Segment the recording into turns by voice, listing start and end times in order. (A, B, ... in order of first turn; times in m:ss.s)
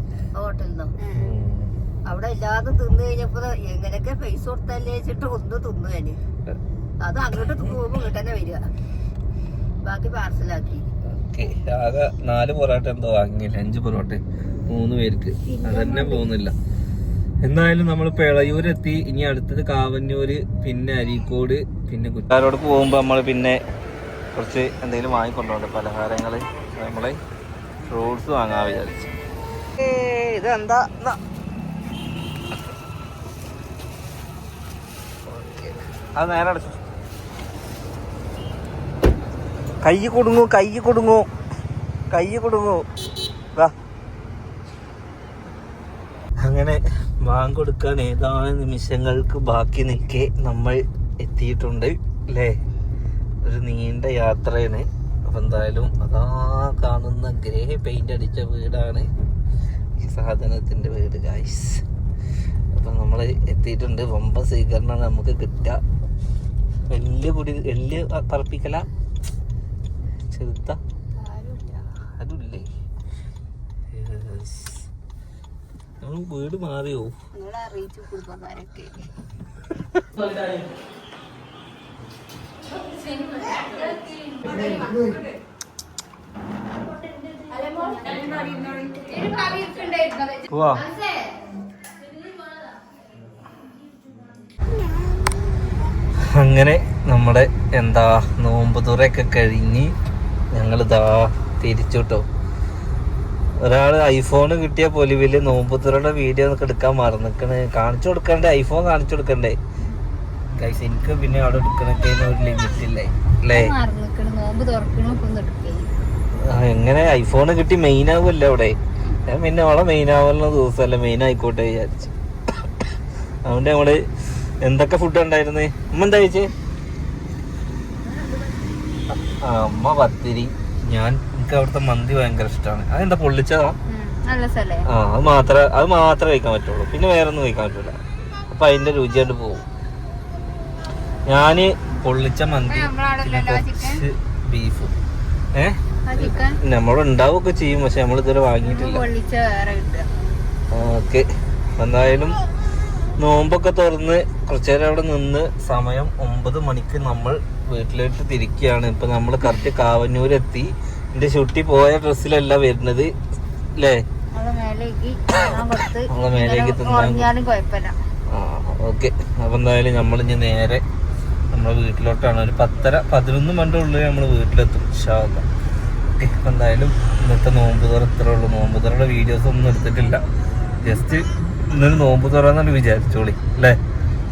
0:00.4-0:01.0 A
0:01.0-0:01.2 B
0:01.1-0:01.7 C
0:02.1-0:06.2 A
0:07.0-0:08.6 A
0:09.8-0:10.9 A
0:11.1-0:16.6 C
0:15.5-0:16.3 B
0:17.4-0:23.6 C
0:24.4-0:27.2 C
0:27.9-0:29.1 C
0:29.8-0:31.2 C
0:35.3-0:36.8 C
0:39.8-0:41.3 C
0:42.1-0:42.8 C
0:46.4-0:52.6 C
0:53.4-0:59.1 C
1:00.0-1:01.8 C
1:02.8-1:05.8 C
1:06.9-1:08.9 C
1:10.3-1:10.8 C
1:11.2-1:11.9 B
1:12.2-1:12.7 C
1:13.9-1:14.9 C
1:16.0-1:17.2 C
1:17.3-1:19.0 B
1:22.9-1:25.2 B
1:27.4-1:31.3 B
1:30.5-1:30.9 C
1:36.2-1:39.9 C
1:40.5-1:42.3 C
1:43.6-1:49.6 C
1:50.5-1:53.7 C
1:53.5-1:55.9 B
1:56.4-2:02.1 C
2:03.4-2:04.0 C
2:04.6-2:06.5 C
2:09.1-2:13.8 C
2:13.9-2:14.9 B
2:14.9-2:18.0 C
2:18.5-2:19.6 C
2:21.3-2:24.9 C
2:22.7-2:24.0 B
2:25.5-2:29.0 C
2:26.1-2:26.6 B
2:28.6-2:30.1 B
2:30.7-2:32.4 C
2:33.2-2:43.1 C
2:43.8-2:44.0 C
2:44.4-2:48.0 B
2:46.1-2:47.3 C
2:48.3-2:50.8 C
2:51.5-2:55.5 C
2:56.2-3:00.2 C
3:00.8-3:03.8 C